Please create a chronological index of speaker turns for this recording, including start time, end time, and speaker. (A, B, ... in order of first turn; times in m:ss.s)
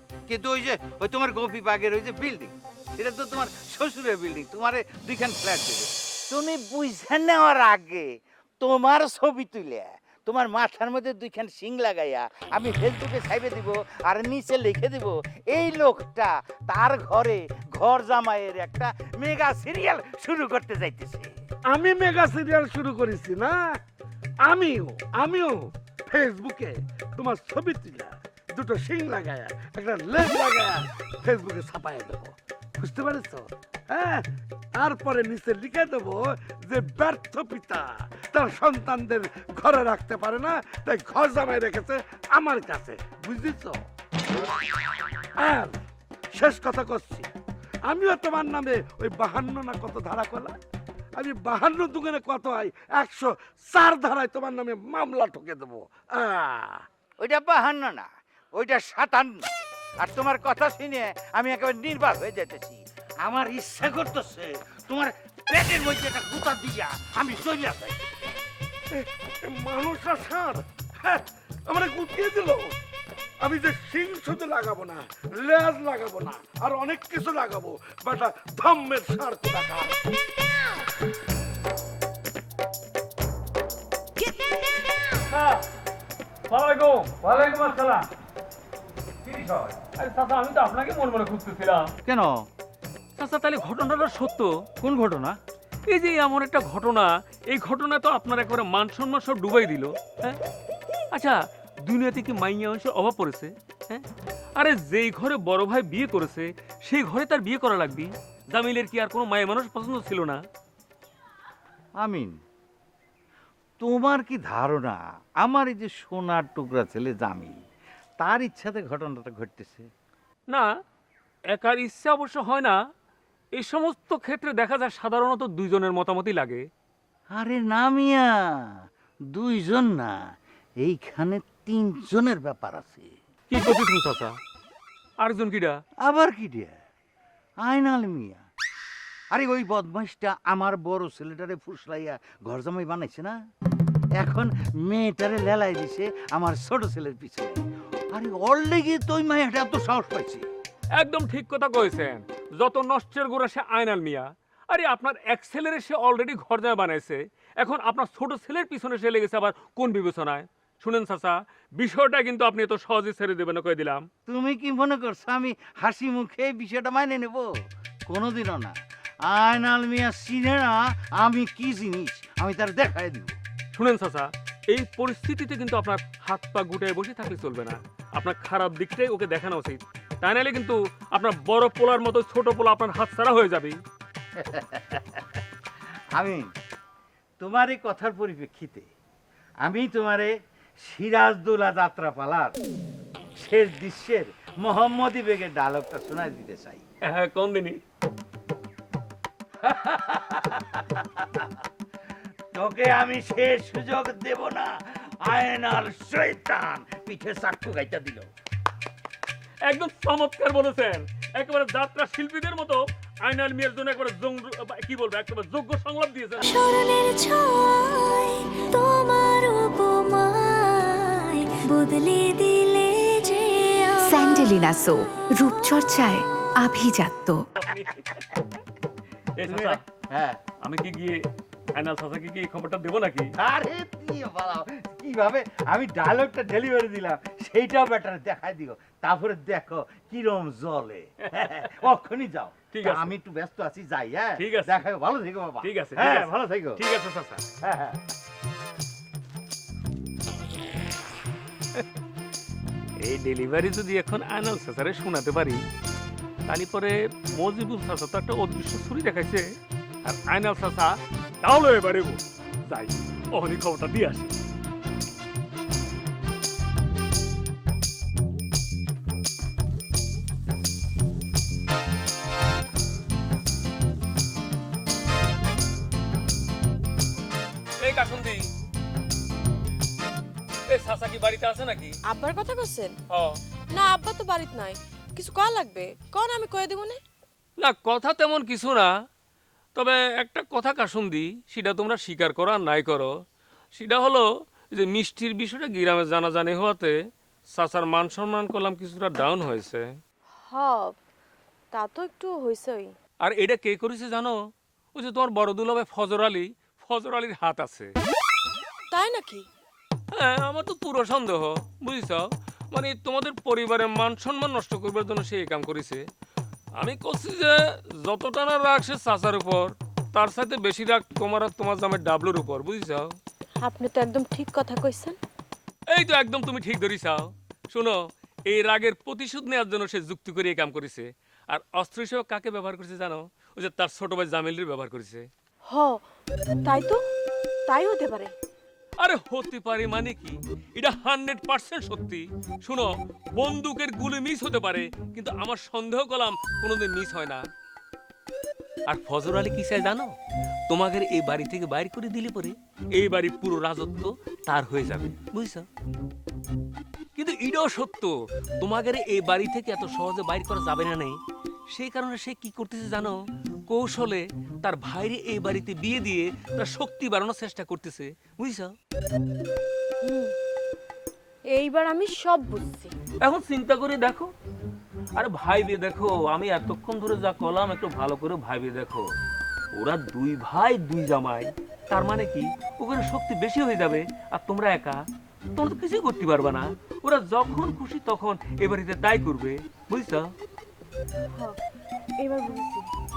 0:00.3-0:08.1 A
0:08.6-0:21.3 A
0:21.7-0:23.8 B
0:24.4-0:43.8 B
0:45.4-0:45.8 B
0:46.3-0:47.3 B
0:47.9-0:50.6 B
0:51.2-0:56.9 B
0:57.2-0:59.5 A
1:00.0-1:08.0 A
1:08.9-1:12.8 B
1:13.4-1:20.0 B
1:25.3-1:25.6 C
1:26.5-1:28.1 C
1:29.3-1:31.9 C
1:32.1-1:32.3 A
1:33.2-1:34.5 C
1:34.8-1:35.4 A
1:35.9-1:40.4 C
1:41.9-1:44.0 C
1:44.6-1:50.4 C
1:52.0-1:52.3 A
1:53.8-1:57.5 A
1:58.2-1:59.9 A
2:01.5-2:02.8 C
2:03.6-2:06.6 C
2:07.3-2:08.7 A
2:09.3-2:10.2 A
2:10.8-2:13.1 A
2:13.5-2:14.4 C
2:15.2-2:15.8 C
2:16.0-2:16.7 A
2:17.6-2:18.4 A
2:19.3-2:23.4 A
2:24.2-2:27.6 A
2:28.1-2:30.5 A
2:31.0-2:44.1 C
2:44.3-2:47.5 A
2:48.1-2:48.7 A
2:49.3-2:53.4 A
2:53.7-3:03.8 C
3:04.4-3:05.4 A
3:06.2-3:06.4 A
3:07.4-3:08.9 A
3:09.6-3:10.3 A
3:10.9-3:12.6 A
3:13.4-3:16.8 A
3:17.1-3:17.8 C
3:19.6-3:21.6 A
3:22.5-3:24.7 A
3:25.2-3:28.3 A
3:29.7-3:36.5 C
3:36.4-3:46.0 D
3:44.1-3:47.4 E
3:47.6-3:48.2 C
3:49.4-3:49.8 C
3:49.4-3:50.4 A
3:50.6-3:51.2 C
3:51.8-3:53.3 C
3:53.4-4:06.8 A
4:02.7-4:03.1 C
4:04.4-4:04.8 C
4:05.6-4:07.4 C
4:07.6-4:08.0 A
4:13.0-4:15.6 C
4:16.5-4:19.4 C
4:20.0-4:24.3 C
4:37.8-4:38.5 C
4:40.7-4:42.0 C
4:42.1-4:42.9 F
4:43.1-4:43.4 C
4:43.7-4:47.0 F
4:47.6-4:48.9 C
4:49.8-4:53.1 C
4:53.8-4:56.9 C
4:57.5-4:59.8 C
5:00.5-5:00.9 F
5:01.7-5:02.9 F
5:03.2-5:04.4 C
5:05.0-5:07.9 C
5:08.9-5:09.4 F
5:10.2-5:16.0 C
5:16.8-5:23.2 C
5:23.6-5:25.2 F
5:25.9-5:28.0 C
5:28.5-5:35.3 C
5:35.7-5:36.0 F
5:36.6-5:37.0 F
5:37.7-5:38.3 F
5:39.0-5:47.4 C
5:48.9-5:50.1 C
5:50.7-5:55.7 C
5:57.2-6:01.2 C
6:01.7-6:08.7 C
6:10.0-6:10.3 F
6:11.5-6:12.9 F
6:13.2-6:14.3 C
6:15.2-6:19.0 C
6:19.8-6:25.0 C
6:25.6-6:30.3 C
6:32.2-6:32.9 F